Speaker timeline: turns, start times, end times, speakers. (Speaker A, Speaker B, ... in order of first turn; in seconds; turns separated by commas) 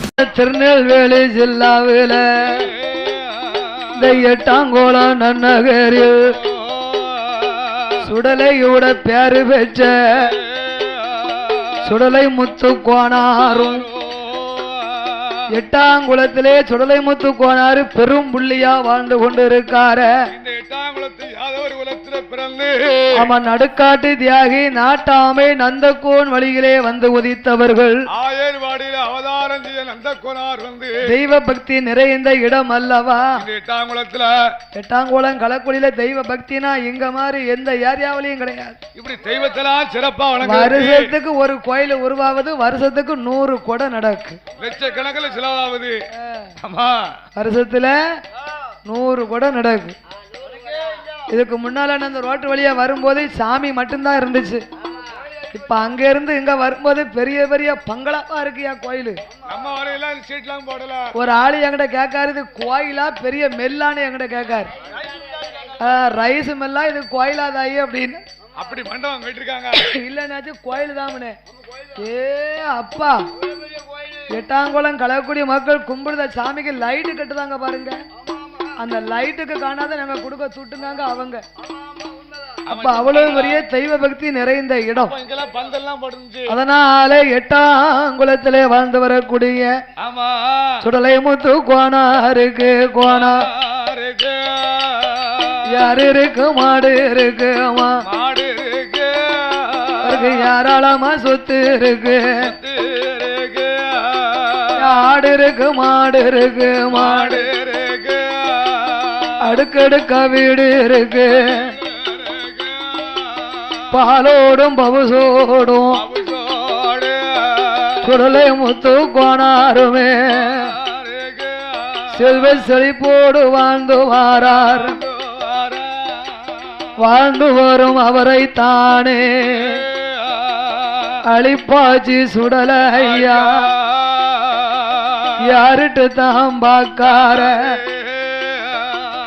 Speaker A: 0.2-2.7, Speaker A: 4.0-6.3, Speaker B: 7.0-8.0, Speaker A: 8.0-10.3, Speaker A: 11.8-13.9, Speaker B: 13.6-15.4, Speaker A: 15.5-20.1, Speaker B: 20.3-23.3, Speaker A: 23.1-28.0, Speaker B: 28.1-30.9, Speaker A: 31.1-33.4, Speaker B: 33.4-34.3, Speaker A: 34.8-38.8, Speaker B: 39.0-41.1, Speaker A: 40.4-44.4, Speaker B: 44.6-46.0, Speaker B: 46.6-47.2, Speaker A: 47.4-48.0, Speaker A: 48.9-50.0, Speaker A: 51.3-54.6, Speaker A: 55.5-59.2, Speaker B: 59.5-61.1, Speaker A: 61.1-64.7, Speaker B: 65.1-65.7, Speaker A: 65.8-68.2, Speaker B: 68.6-69.9, Speaker A: 69.8-71.4, Speaker A: 72.0-73.2, Speaker A: 74.3-78.0, Speaker A: 78.8-81.4, Speaker B: 82.7-83.6, Speaker A: 82.7-85.2, Speaker B: 85.0-86.6, Speaker A: 86.5-89.8, Speaker B: 90.0-90.9, Speaker A: 90.8-93.5, Speaker B: 93.0-95.6, Speaker A: 95.7-98.0, Speaker B: 98.0-100.5, Speaker A: 100.0-102.5, Speaker B: 102.4-104.9, Speaker A: 104.8-107.5, Speaker B: 106.9-109.4, Speaker A: 109.4-111.7, Speaker B: 111.8-113.9, Speaker A: 113.9-116.0, Speaker B: 115.9-118.0, Speaker A: 118.0-120.7, Speaker B: 120.4-122.3, Speaker A: 122.1-125.0, Speaker B: 124.6-126.6, Speaker A: 127.0-129.8, Speaker B: 129.6-131.2, Speaker A: 131.3-133.7, Speaker B: 133.0-135.3, Speaker A: 135.4-137.8, Speaker B: 137.1-139.1